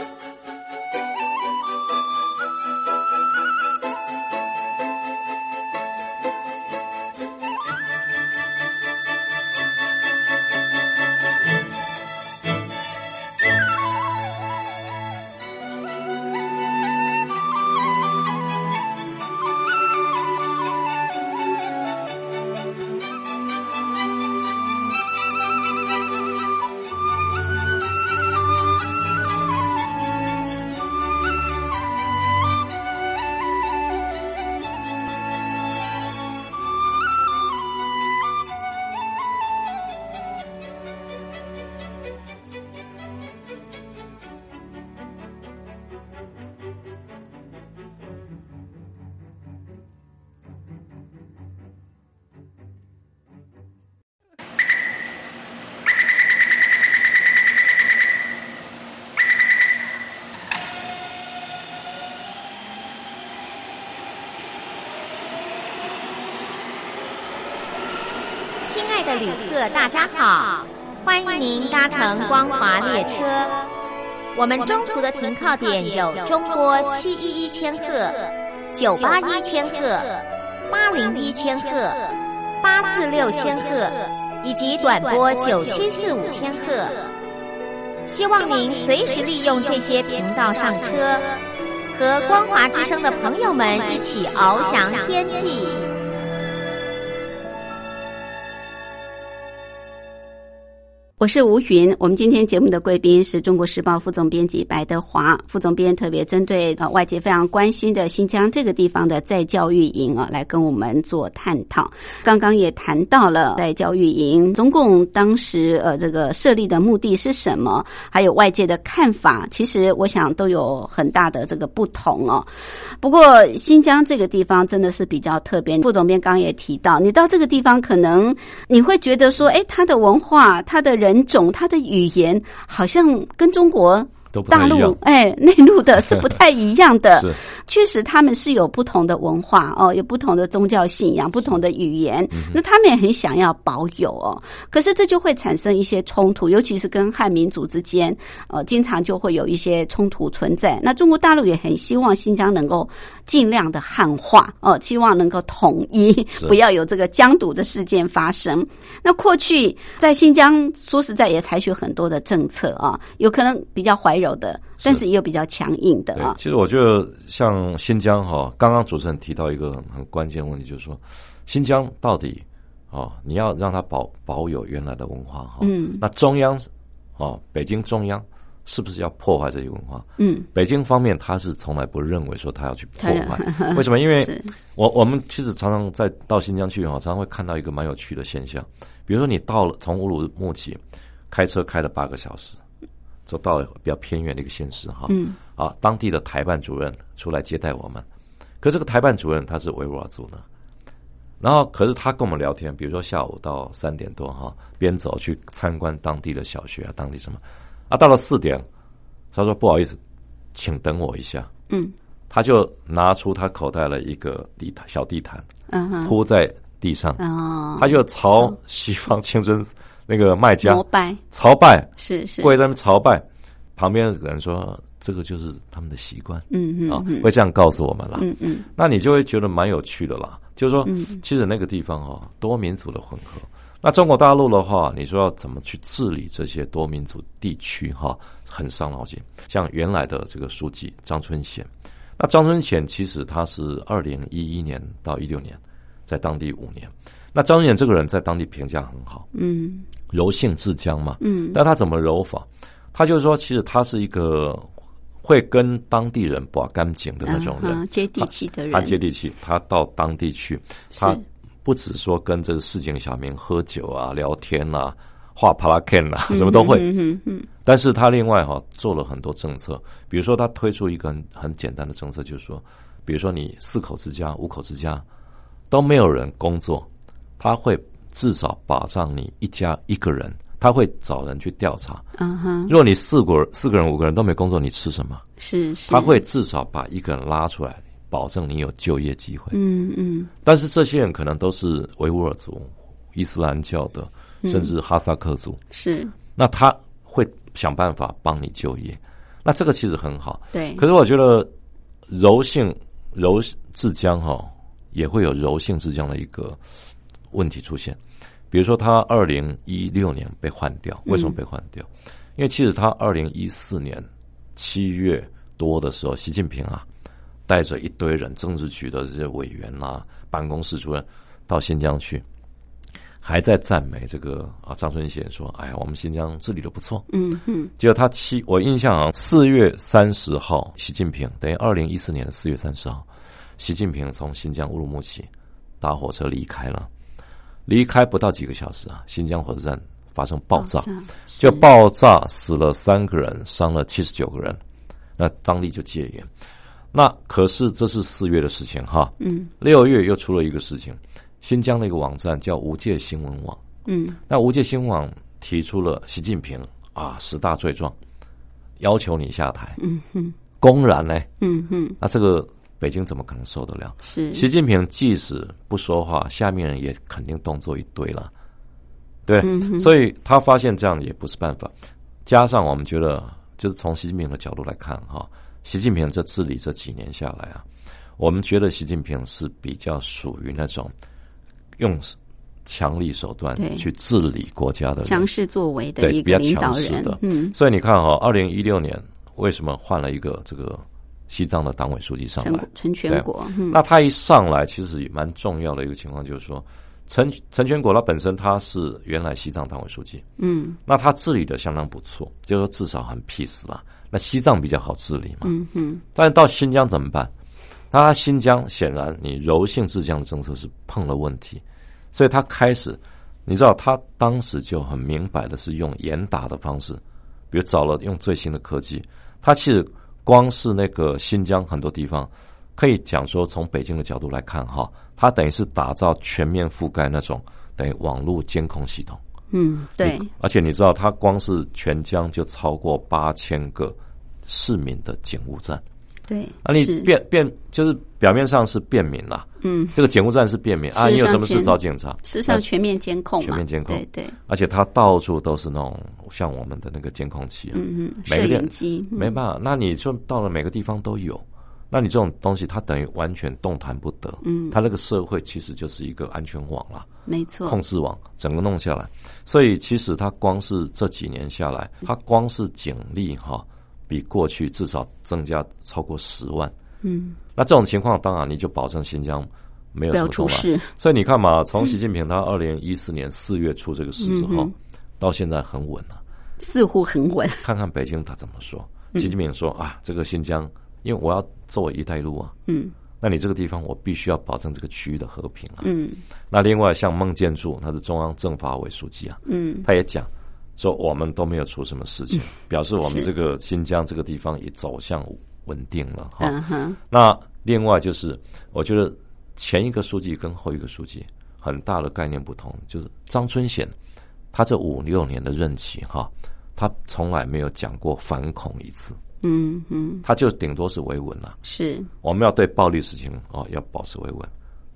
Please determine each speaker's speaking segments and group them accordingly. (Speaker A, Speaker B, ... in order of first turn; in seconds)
Speaker A: 68.6-73.7, 74.3-87.1, 88.1-91.4, 91.9-95.8
Speaker B: 101.2-122.5, 123.0-166.4, 175.6-176.0, 180.2-180.5, 183.0-184.5, 195.1-195.4, 215.7-216.1, 217.2-217.9, 220.6-221.2, 222.0-222.5, 226.5-227.3, 228.2-228.7, 230.8-231.2, 249.3-249.9, 251.2-251.6, 257.2-259.0, 260.9-261.2, 266.3-267.5, 282.2-282.7, 285.4-286.2, 289.5-290.3, 294.4-294.7, 295.7-296.1, 300.5-300.8, 311.1-311.3, 327.1-327.7, 340.6-341.6, 349.2-349.5, 353.9-354.2, 359.8-360.3, 361.4-362.0, 364.0-364.4, 369.4-369.9, 383.6-383.9, 385.1-387.5, 392.4-393.8, 400.4-400.8, 405.4-406.0, 429.5-430.3, 436.3-437.1, 439.6-439.9, 440.9-444.4, 447.7-449.3, 454.4-454.7, 457.3-457.8, 467.0-467.4, 470.1-470.9, 474.2-474.7, 476.6-477.6, 482.7-482.9, 485.8-486.2, 489.5-489.9, 496.4-497.0, 509.4-510.2, 511.6-512.1
Speaker C: 134.3-135.0, 166.1-192.6, 193.3-198.0, 198.6-200.4, 201.4-208.6, 209.3-210.0, 210.5-211.5, 212.3-215.5, 216.0-217.2, 217.8-223.2, 223.8-228.2, 228.8-249.3, 250.1-254.7, 255.2-266.9, 267.6-275.0, 275.7-276.9, 277.4-282.0, 282.7-285.2, 285.9-289.5, 290.4-295.6, 296.4-301.5, 302.1-306.6, 307.3-308.0, 308.5-316.9, 317.4-322.2, 323.2-327.1, 327.8-333.1, 333.6-335.3, 335.8-336.9, 337.7-344.6, 345.2-346.3, 346.9-353.6, 354.3-357.9, 358.8-359.8, 360.6-361.3, 362.0-368.3, 369.2-371.7, 372.2-377.6, 378.2-380.9, 381.8-385.3, 386.0-400.2, 400.9-405.5, 406.1-407.3, 407.9-429.2, 430.0-435.8, 436.6-442.6, 443.4-457.1, 457.6-466.7, 467.6-476.2, 477.6-482.5, 483.2-485.9, 486.5-496.6, 497.1-503.9, 504.5-509.2, 510.2-511.6, 512.2-514.5